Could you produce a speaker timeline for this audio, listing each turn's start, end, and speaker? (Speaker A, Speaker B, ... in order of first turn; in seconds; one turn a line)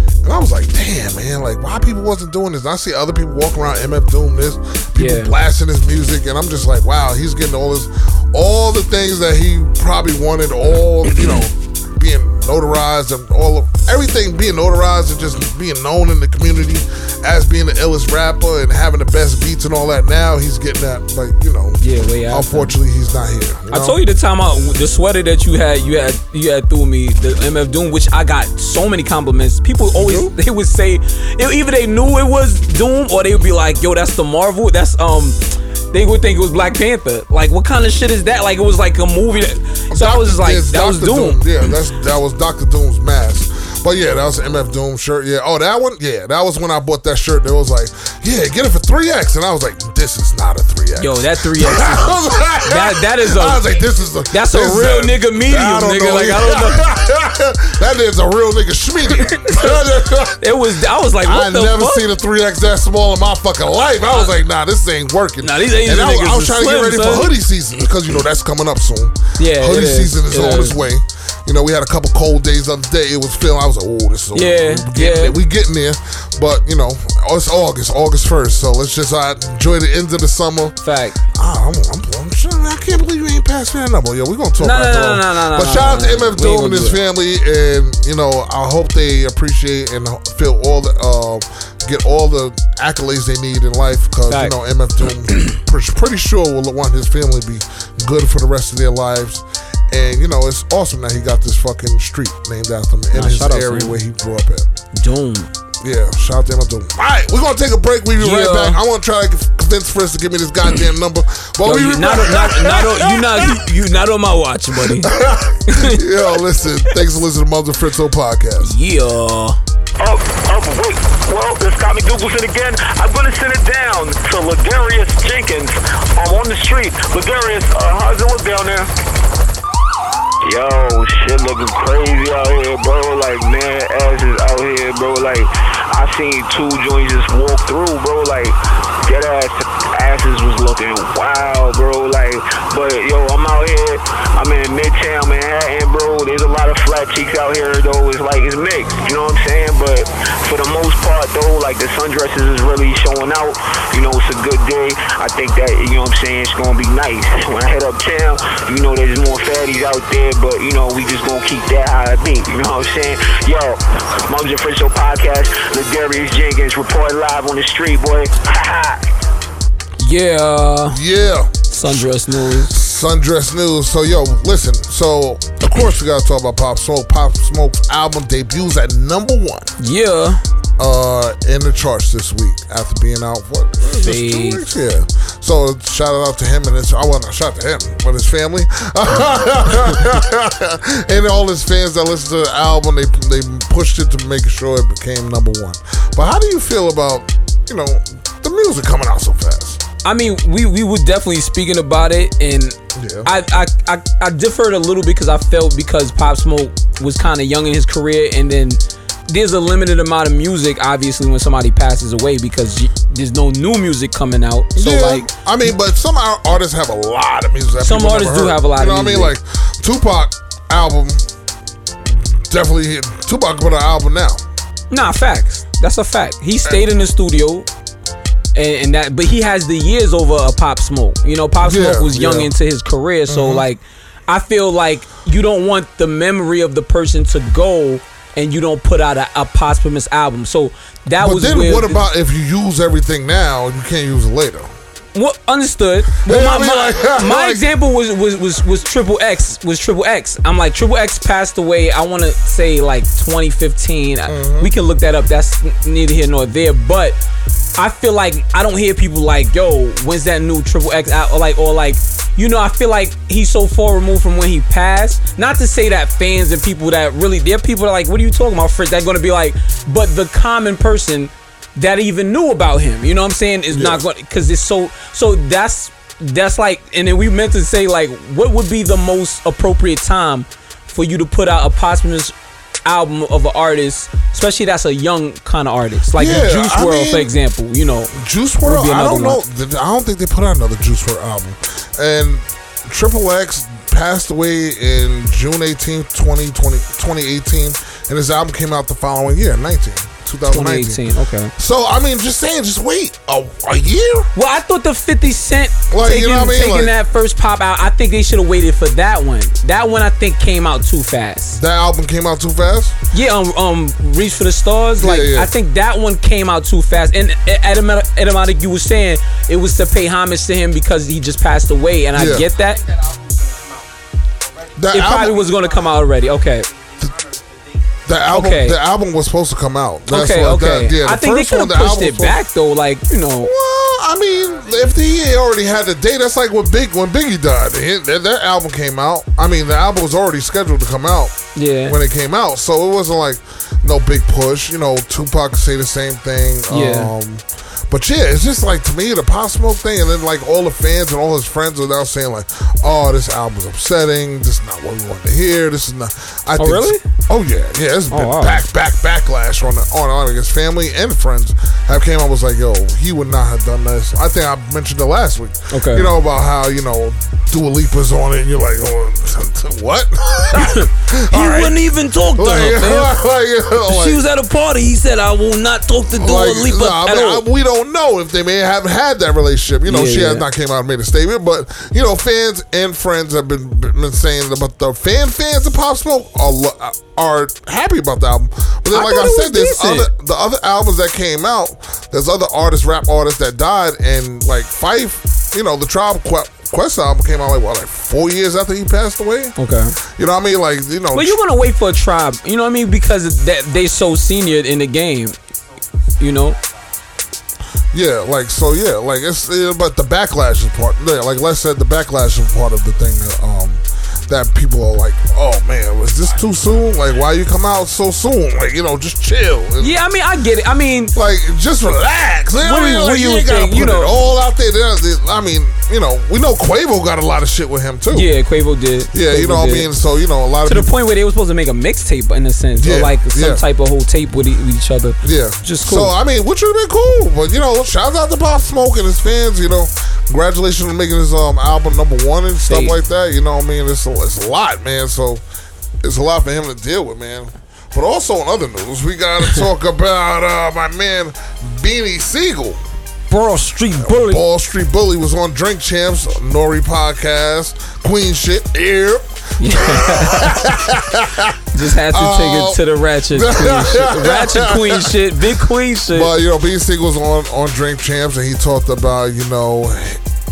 Speaker A: 0.2-24.0
Speaker B: 5.0-5.3
Speaker B: 21.8-22.8
Speaker B: 23.7-35.4
Speaker A: 29.9-30.3
Speaker B: 35.9-41.4
Speaker A: 39.9-60.4
Speaker B: 51.0-53.6
Speaker B: 54.3-56.9
Speaker B: 59.2-62.0
Speaker A: 61.2-80.8
Speaker B: 65.4-67.3
Speaker B: 69.4-70.8
Speaker B: 74.3-75.3
Speaker B: 80.8-81.2
Speaker A: 81.3-104.7
Speaker B: 84.6-87.0
Speaker B: 94.3-94.5
Speaker B: 103.1-103.9
Speaker B: 104.9-105.5
Speaker A: 105.8-113.6
Speaker B: 108.2-108.8
Speaker B: 111.6-115.1
Speaker A: 114.9-118.7
Speaker B: 115.7-116.1
Speaker B: 118.6-119.6
Speaker C: 120.0-128.9
Speaker C: 130.4-169.1
Speaker B: 170.0-171.0
Speaker A: 170.9-179.7
Speaker B: 171.7-172.8
Speaker B: 179.8-180.4
Speaker A: 180.8-199.8
Speaker B: 184.0-184.6
Speaker B: 200.0-215.3
Speaker A: 202.9-203.3
Speaker A: 214.8-221.2
Speaker B: 217.8-219.3
Speaker A: 222.1-224.4
Speaker B: 224.9-227.7
Speaker B: 228.5-242.0
Speaker A: 231.6-232.5
Speaker A: 233.3-233.6
Speaker A: 241.2-244.7
Speaker B: 245.1-257.2
Speaker A: 246.2-247.6
Speaker A: 254.3-254.7
Speaker B: 257.8-282.3
Speaker A: 273.7-274.0
Speaker B: 282.8-288.1
Speaker A: 286.1-287.3
Speaker A: 288.1-301.0
Speaker B: 288.6-289.4
Speaker B: 300.4-301.5
Speaker A: 301.6-304.3
Speaker B: 304.3-311.6
Speaker A: 305.9-306.9
Speaker A: 311.6-312.9
Speaker B: 313.1-322.8
Speaker A: 315.0-315.5
Speaker A: 322.1-322.4
Speaker A: 324.8-325.6
Speaker B: 324.9-326.7
Speaker A: 328.1-332.4
Speaker B: 328.3-328.8
Speaker B: 330.1-333.5
Speaker A: 333.4-371.8
Speaker B: 341.5-342.0
Speaker B: 346.7-347.1
Speaker B: 356.6-357.0
Speaker B: 358.1-358.6
Speaker B: 365.7-366.1
Speaker B: 370.5-373.2
Speaker A: 372.3-374.2
Speaker B: 373.8-377.4
Speaker A: 376.1-399.6
Speaker B: 379.9-380.4
Speaker B: 388.9-390.1
Speaker B: 399.6-399.9
Speaker A: 400.1-401.4
Speaker B: 401.1-405.4
Speaker B: 406.2-406.6
Speaker A: 407.9-420.0
Speaker B: 419.8-421.1
Speaker A: 421.1-428.3
Speaker B: 422.6-424.1
Speaker B: 428.1-429.9
Speaker A: 429.1-430.9
Speaker B: 430.7-436.1
Speaker A: 432.8-433.6
Speaker A: 435.2-445.4
Speaker B: 442.7-442.9
Speaker A: 446.0-452.8
Speaker B: 453.3-454.4
Speaker A: 454.0-461.6
Speaker B: 459.6-460.8
Speaker B: 461.7-466.3
Speaker A: 462.1-462.8
Speaker A: 463.3-465.2
Speaker A: 466.1-470.2